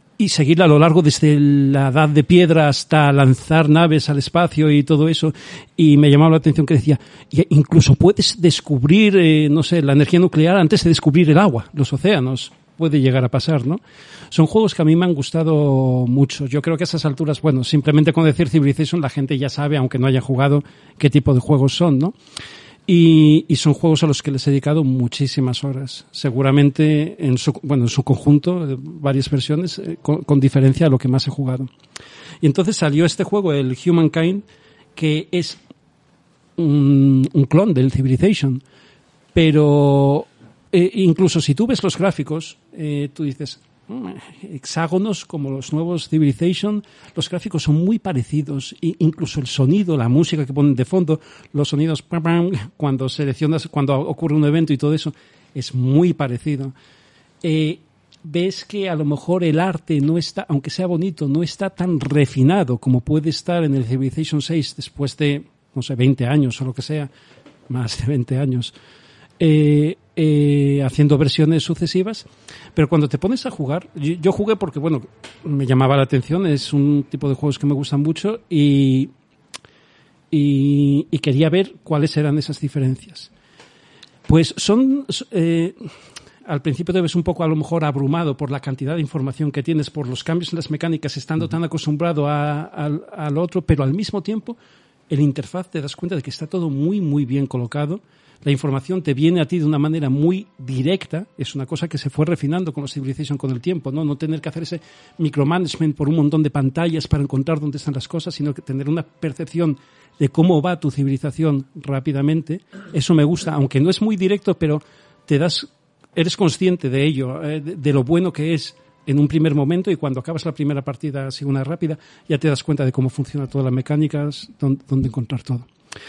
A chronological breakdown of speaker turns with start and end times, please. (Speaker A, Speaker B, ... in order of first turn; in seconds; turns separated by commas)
Speaker A: 0.2-22.1, Speaker A: 22.9-31.7, Speaker A: 32.4-34.4, Speaker A: 35.0-35.6, Speaker A: 36.6-38.6, Speaker A: 39.3-56.7, Speaker A: 57.4-67.1, Speaker A: 67.7-68.7, Speaker A: 69.4-79.1, Speaker A: 80.3-83.3, Speaker A: 84.3-85.8, Speaker A: 86.5-94.5, Speaker A: 95.1-125.7